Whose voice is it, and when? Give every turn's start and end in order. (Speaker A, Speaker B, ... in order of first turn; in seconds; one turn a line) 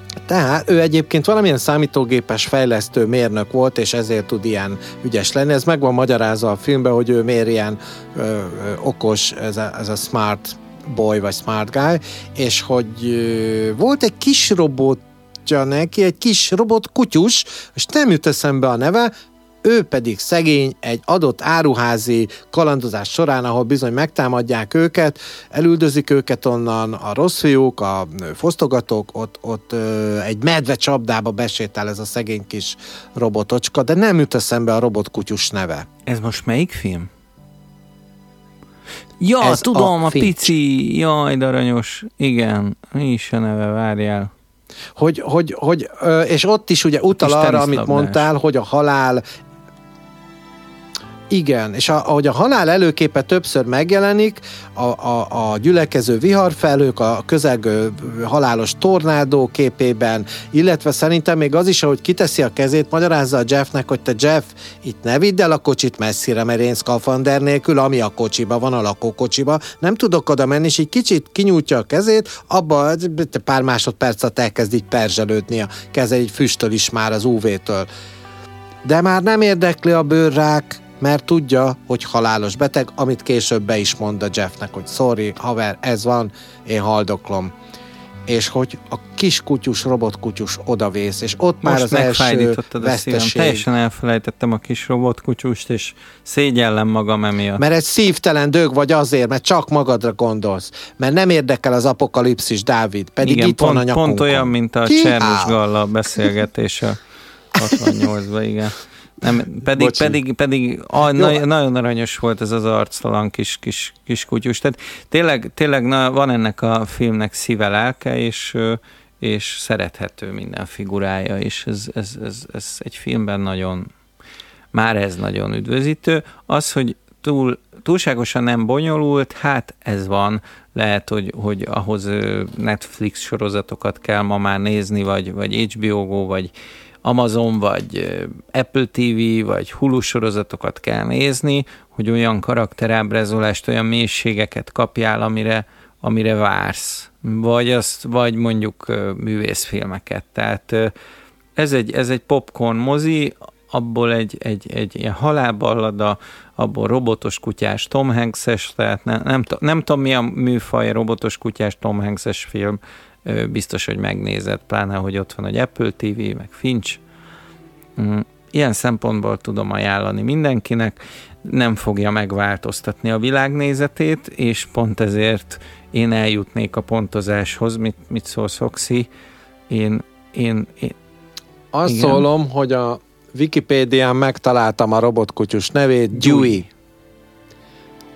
Speaker A: 0.2-19.1
Speaker A: 19.6-35.9
Speaker B: 36.0-37.1
Speaker B: 39.2-44.3
Speaker A: 39.4-40.5
Speaker A: 45.0-49.2
Speaker B: 47.2-48.3
Speaker A: 51.3-77.9
Speaker A: 78.8-87.5
Speaker A: 88.3-93.7
Speaker B: 91.6-97.6
Speaker A: 97.6-105.6
Speaker B: 103.2-107.0
Speaker B: 107.5-123.9
Speaker A: 107.7-108.0
Speaker A: 109.7-110.2
Speaker A: 111.1-111.4
Speaker B: 124.7-136.5
Speaker B: 137.0-150.9
Speaker B: 151.6-167.0
Speaker B: 168.0-179.1
Speaker B: 179.7-180.9
Speaker A: 181.7-186.7
Speaker B: 181.8-182.2
Speaker B: 186.1-186.6